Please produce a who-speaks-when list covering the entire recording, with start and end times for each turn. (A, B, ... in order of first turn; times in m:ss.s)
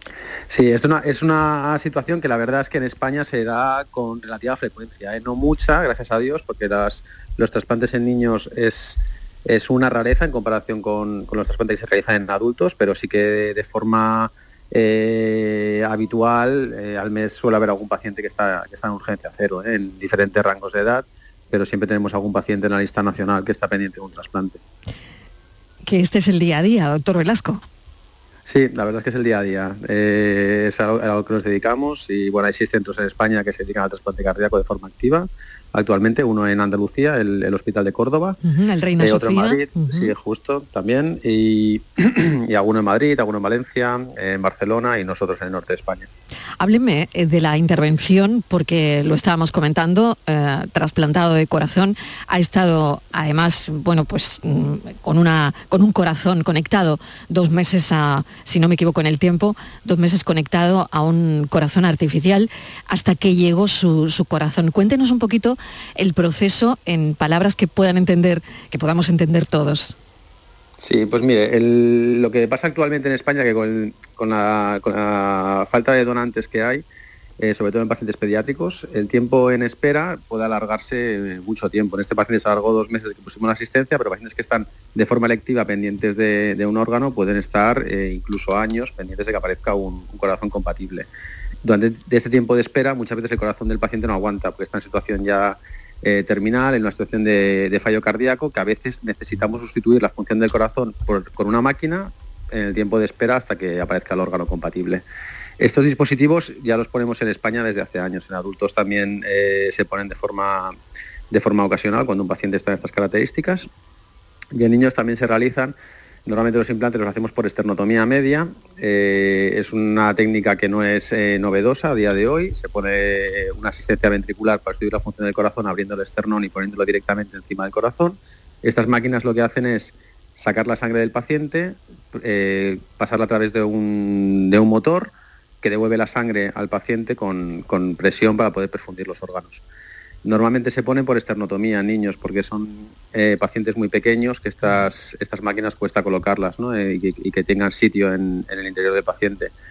0:00.5-0:24.6 A
0:25.9-0:27.6 B
0:28.5-0:38.4 A
0:38.4-0:40.1 B
0:39.0-0:46.1 A
0:46.6-1:09.9 B
1:10.8-1:16.8 A
1:17.4-1:31.1 A
1:31.6-1:45.0 A
1:45.6-1:50.8 A
1:51.3-1:53.7 A
1:54.5-2:19.6 A
2:20.2-2:29.5 A